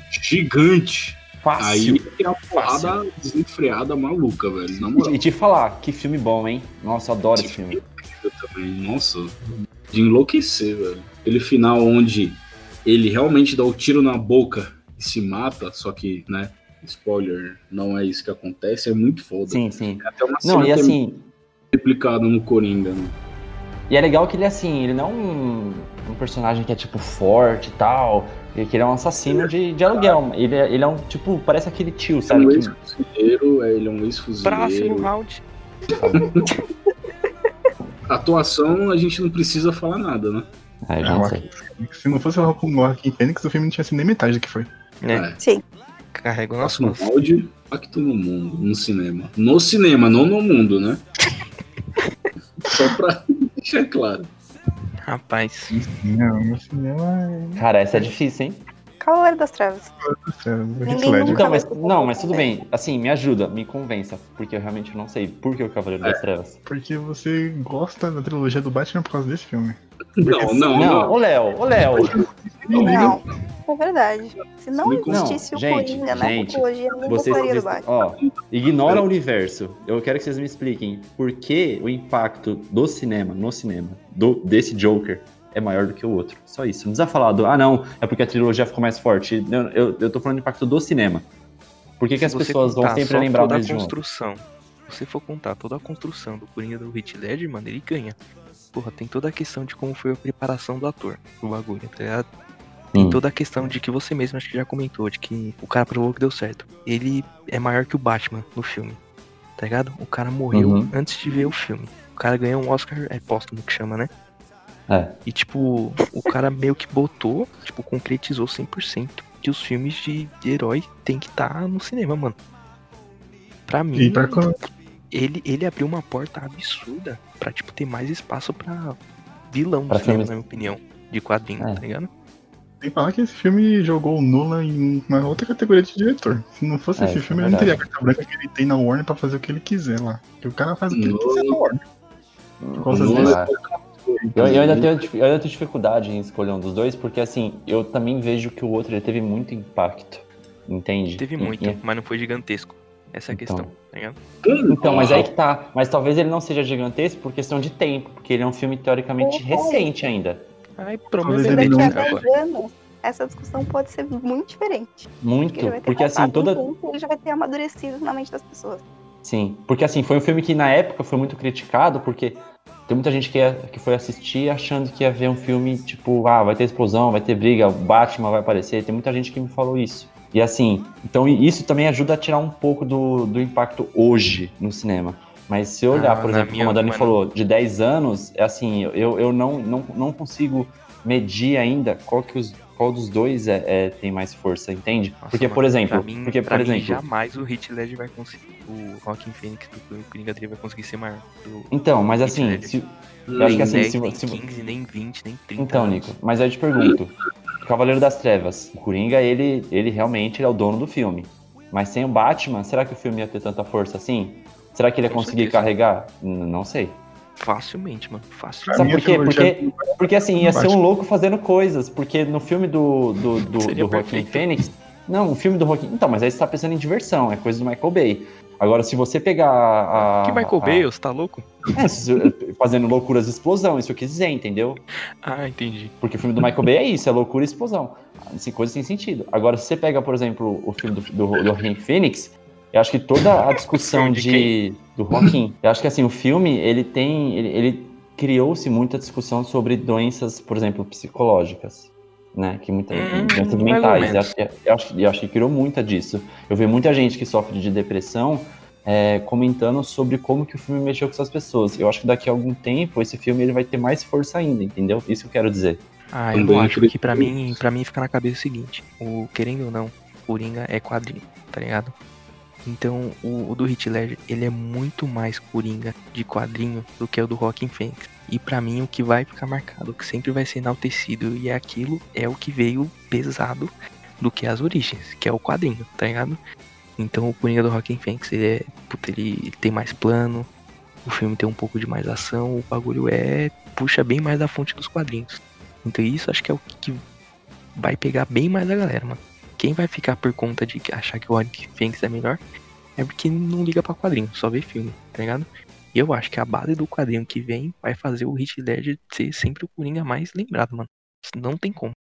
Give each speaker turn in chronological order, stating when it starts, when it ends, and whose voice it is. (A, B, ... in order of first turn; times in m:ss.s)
0:00.1-0:05.2 A
0:01.4-0:03.0 B
0:04.9-0:07.8 B
0:07.4-0:21.0 A
0:19.5-0:21.3 B
0:21.7-0:23.2 A
0:23.9-0:32.7 B
0:29.3-0:30.2 A
0:32.3-0:35.1 A
0:34.4-0:35.4 C
0:36.0-0:36.3 B
0:36.1-0:36.5 A
0:38.1-0:40.5 A
0:40.8-0:41.5 B
0:41.0-0:44.7 D
0:45.0-0:45.3 C
0:45.1-0:45.4 A
0:46.1-0:47.1 C
0:46.6-0:51.0 A
0:52.6-0:54.3 A
0:55.0-0:55.8 C
0:55.8-0:57.6 D
0:57.6-0:58.6 B
0:59.0-0:59.9 E
1:00.0-1:01.4 D
1:00.8-1:02.6 E
1:01.2-1:06.6 B
1:06.6-1:09.8 D
1:10.2-1:11.2 A
1:10.3-1:10.9 D
1:10.7-1:12.2 B
1:11.9-1:13.2 D
1:12.7-1:13.2 A
1:12.8-1:17.8 E
1:14.8-1:15.3 A
1:15.1-1:31.3 B
1:17.0-1:17.5 A
1:18.2-1:19.0 A
1:32.0-1:33.9 B
1:32.2-1:38.2 C
1:38.7-1:42.3 C
1:42.9-1:43.2 B
1:42.9-1:49.0 C
1:49.6-1:54.1 C
1:50.5-1:50.9 B
1:54.9-1:55.2 B
1:55.2-2:02.4 C
2:03.7-2:04.4 C
2:03.9-2:04.6 D
2:05.1-2:09.0 C
2:09.5-2:12.1 C
2:09.9-2:10.3 B
2:12.8-2:21.8 D
2:17.0-2:17.8 B
2:20.9-2:21.6 A
2:22.6-2:23.5 B
2:22.8-2:23.4 D
2:22.9-2:25.0 A
2:24.2-2:24.5 D
2:24.3-2:31.8 B
2:31.2-2:34.2 C
2:33.3-2:33.7 B
2:34.4-2:35.3 A
2:34.7-2:40.5 B
2:39.2-2:39.9 E
2:40.8-2:42.3 C
2:41.2-2:42.2 D
2:41.4-2:48.8 E
2:45.2-2:46.6 B
2:49.2-3:17.0 B
3:05.9-3:07.2 C
3:15.2-3:21.7 C
3:21.7-3:24.4 B
3:22.2-3:22.7 C
3:23.3-3:23.8 A
3:23.4-3:26.1 C
3:25.6-3:37.0 B
3:35.1-3:35.7 C
3:37.4-3:39.1 C
3:38.7-3:40.8 D
3:38.7-3:50.9 B
3:43.6-3:44.5 C
3:50.0-3:51.7 C
3:51.7-3:54.8 B
3:55.2-3:55.9 C
3:56.0-4:25.8 B
4:03.7-4:04.5 C
4:12.9-4:14.3 C
4:26.1-4:31.9 C
4:26.3-4:27.6 A
4:32.6-4:46.4 C
4:47.0-4:50.5 C
4:51.0-4:57.0 C
4:57.8-5:02.4 C
5:03.0-5:11.9 C